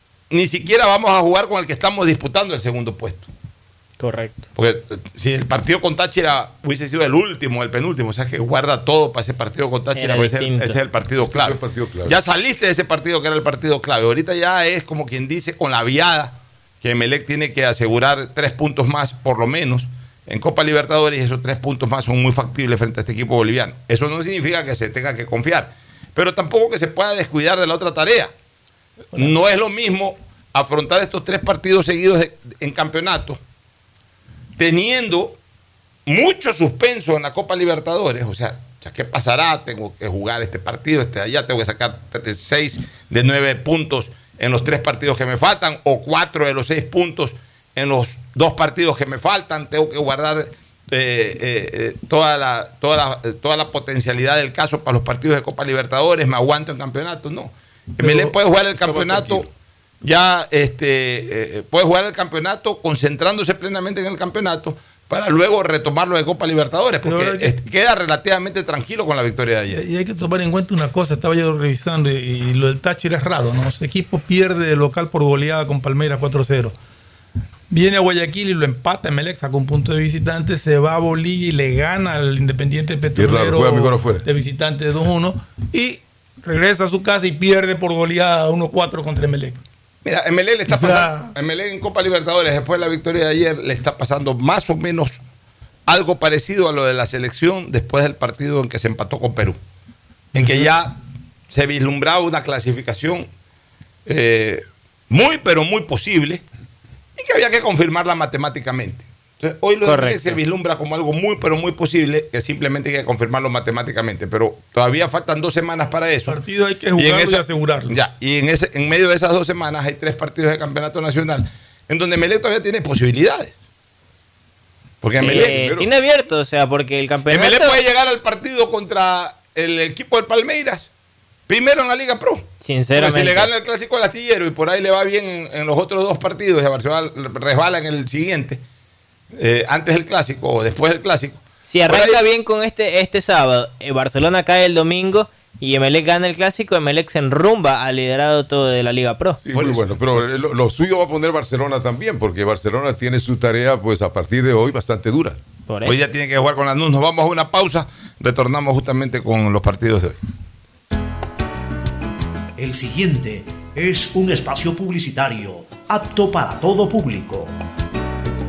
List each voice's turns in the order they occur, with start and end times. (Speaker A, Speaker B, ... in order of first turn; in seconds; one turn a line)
Speaker A: 0.3-3.3
Speaker B: 4.0-4.5
Speaker A: 4.6-28.3
Speaker B: 9.9-10.8
Speaker C: 11.2-12.2
Speaker A: 29.1-33.4
Speaker A: 34.6-35.4
Speaker A: 36.1-59.5
Speaker D: 58.0-58.4
Speaker C: 58.8-59.5
Speaker A: 60.0-69.8
Speaker D: 67.0-67.5
Speaker D: 69.7-76.8
Speaker D: 77.7-89.6
Speaker C: 83.2-84.3
Speaker A: 90.0-95.2
Speaker D: 90.7-91.3
Speaker A: 95.9-99.6
Speaker A: 100.3-101.0
Speaker D: 100.4-100.7
Speaker A: 101.5-103.3
Speaker A: 104.1-106.4
Speaker A: 107.2-116.4
Speaker B: 109.8-110.4
Speaker D: 116.2-118.1
Speaker A: 117.0-123.5
Speaker A: 125.0-125.6
Speaker B: 125.2-127.8
Speaker C: 125.4-126.0
Speaker A: 127.3-130.9
Speaker A: 131.5-138.6
Speaker B: 132.6-133.5
Speaker A: 139.3-142.2
Speaker B: 141.7-149.4
Speaker C: 149.4-155.4
Speaker A: 149.5-150.2
Speaker B: 155.7-156.0
Speaker A: 155.8-160.2
Speaker E: 162.6-167.5